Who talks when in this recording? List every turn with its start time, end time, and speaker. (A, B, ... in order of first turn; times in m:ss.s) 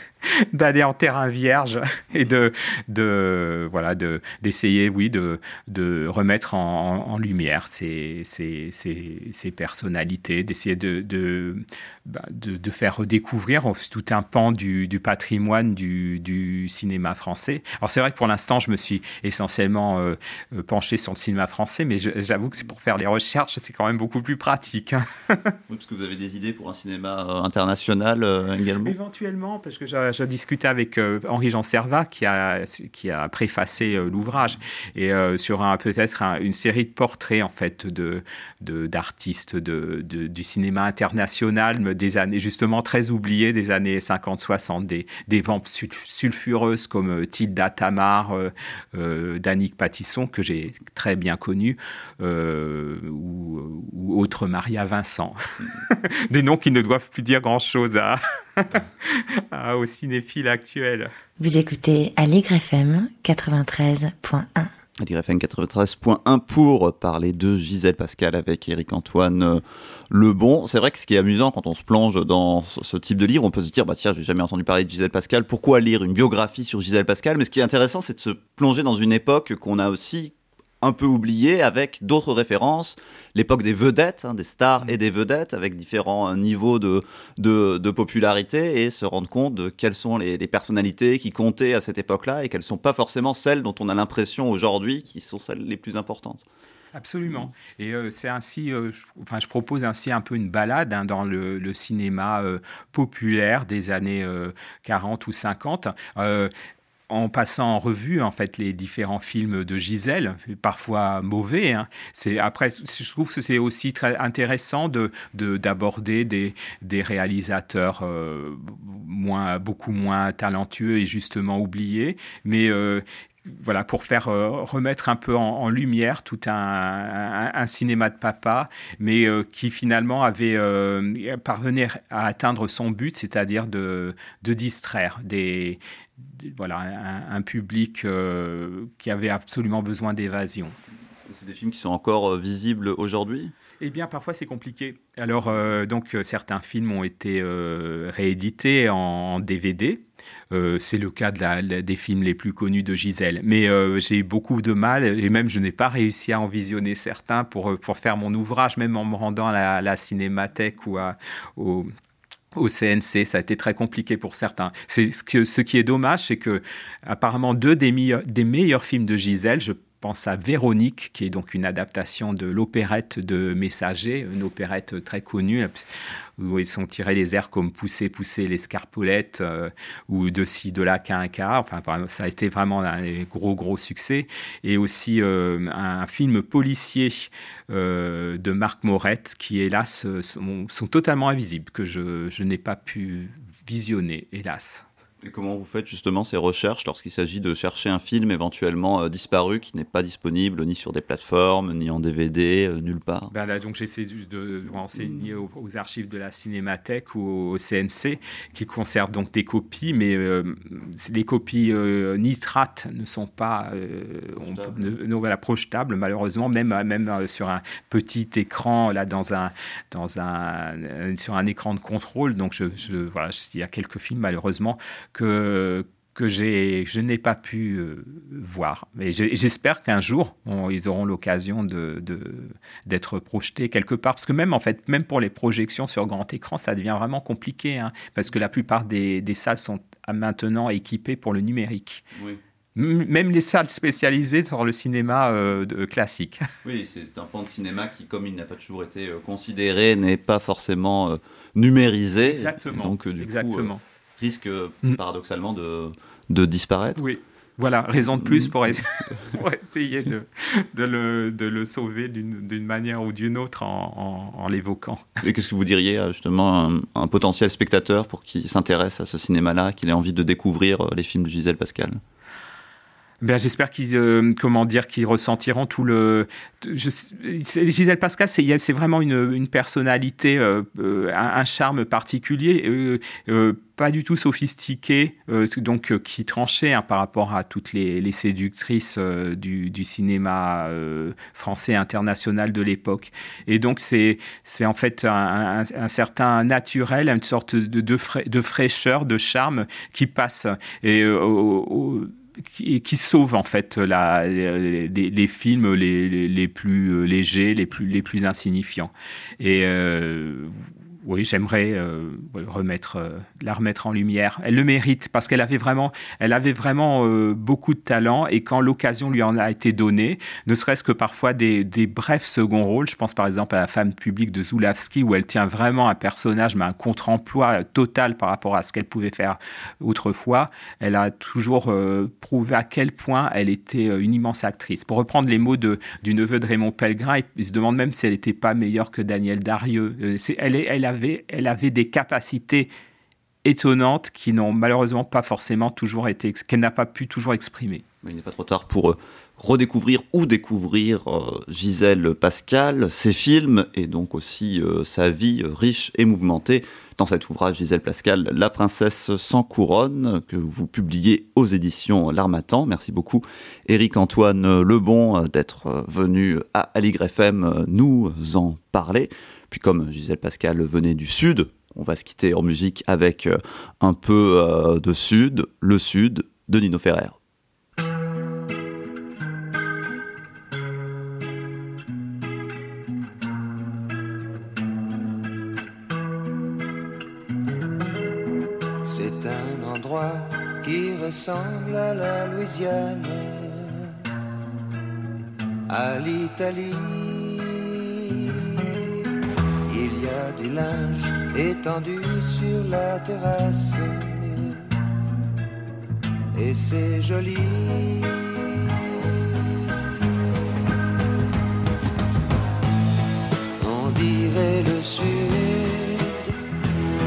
0:00.2-0:25.5 A
0:25.7-0:29.0 B
0:28.8-1:01.1 A
1:01.4-1:04.7 C
1:05.0-1:36.4 B
1:36.9-1:46.5 A
1:47.1-2:20.7 A
2:21.2-2:23.5 B
2:23.8-2:41.9 A
2:42.5-2:55.8 A
2:56.4-3:14.8 A
3:15.2-3:23.3 B
3:23.3-4:02.0 A
3:34.4-3:34.9 B
4:02.8-4:06.5 A
4:06.6-4:17.0 B
4:12.2-4:13.8 A
4:17.0-4:25.2 A
4:18.2-4:18.5 B
4:25.2-4:32.0 B
4:33.2-5:42.7 A
5:43.4-5:47.8 A
5:48.0-6:17.2 B
6:28.8-6:34.0 D
6:35.7-6:38.8 D
6:39.6-6:44.6 D
6:46.3-6:49.2 D
6:53.6-6:56.3 D